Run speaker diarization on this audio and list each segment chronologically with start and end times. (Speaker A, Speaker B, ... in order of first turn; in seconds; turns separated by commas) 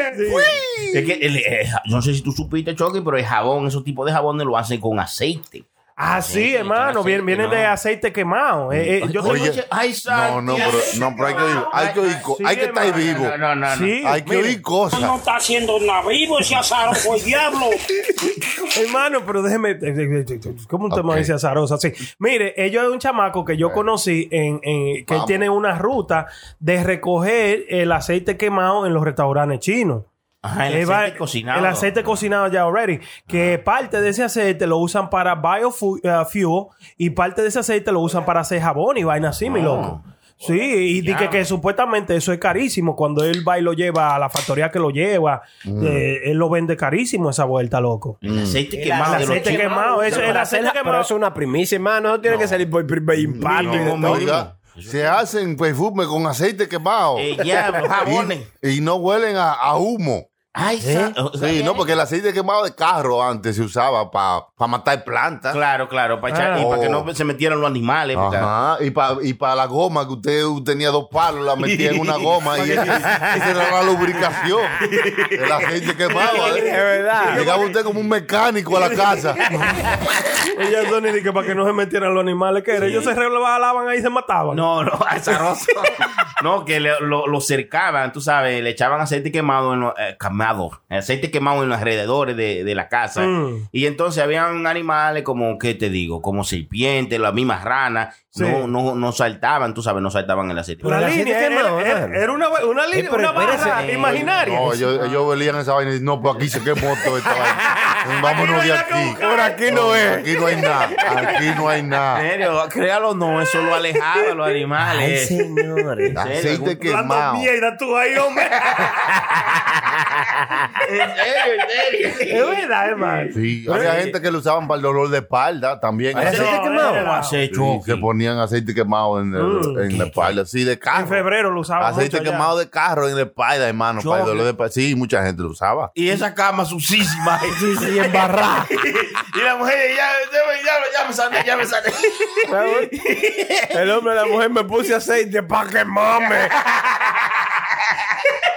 Speaker A: 0.1-0.6, Speaker B: 0.3-0.9, Speaker C: 0.4-5.7, Speaker A: 6.0-9.5, Speaker C: 6.2-7.7, Speaker B: 8.7-13.4, Speaker C: 9.0-12.2, Speaker A: 10.5-14.6, Speaker C: 12.9-14.0, Speaker B: 14.0-15.1, Speaker D: 14.9-17.8, Speaker A: 18.7-30.1, Speaker B: 20.9-21.3, Speaker B: 25.1-25.4, Speaker C: 30.4-32.0, Speaker A: 30.7-48.2, Speaker C: 33.3-33.6, Speaker C: 39.4-40.0, Speaker C: 41.0-41.5, Speaker B: 45.6-46.0, Speaker C: 48.2-50.4, Speaker B: 48.2-48.6, Speaker E: 48.7-54.3, Speaker A: 49.0-51.1, Speaker C: 52.2-52.6, Speaker B: 53.2-57.4, Speaker C: 53.4-55.2, Speaker C: 57.1-58.5, Speaker B: 58.0-60.3, Speaker C: 60.5-61.9, Speaker B: 61.4-65.6, Speaker C: 65.5-68.5, Speaker A: 66.3-66.7, Speaker B: 66.5-67.1, Speaker B: 68.1-74.8, Speaker C: 71.6-73.6, Speaker A: 72.6-73.0, Speaker C: 74.8-76.3, Speaker B: 75.3-76.7, Speaker A: 76.1-77.8, Speaker E: 76.4-77.4, Speaker B: 77.3-79.4, Speaker A: 78.9-79.8, Speaker A: 80.5-84.6, Speaker C: 82.8-83.1, Speaker C: 84.5-101.0, Speaker A: 93.2-93.7, Speaker A: 98.3-98.7, Speaker E: 100.8-102.2, Speaker A: 100.8-105.2, Speaker E: 102.9-104.8, Speaker C: 103.5-104.3, Speaker B: 104.3-112.2, Speaker A: 107.7-109.6, Speaker E: 109.2-110.3, Speaker C: 112.1-115.4, Speaker E: 114.8-116.2, Speaker C: 116.1-116.8, Speaker B: 116.1-117.5, Speaker A: 116.8-118.9, Speaker C: 118.4-119.0, Speaker C: 120.8-124.1, Speaker A: 122.3-123.3, Speaker B: 123.3-126.5, Speaker E: 126.2-127.1, Speaker C: 126.2-128.1, Speaker A: 126.2-127.4, Speaker B: 127.5-131.2, Speaker A: 129.3-129.9, Speaker C: 129.9-130.4, Speaker A: 130.9-132.5, Speaker B: 131.8-135.9, Speaker C: 134.0-134.5, Speaker C: 135.9-138.2, Speaker E: 137.5-138.7, Speaker C: 138.7-143.8, Speaker E: 142.5-142.9, Speaker E: 143.7-146.6, Speaker C: 146.7-147.5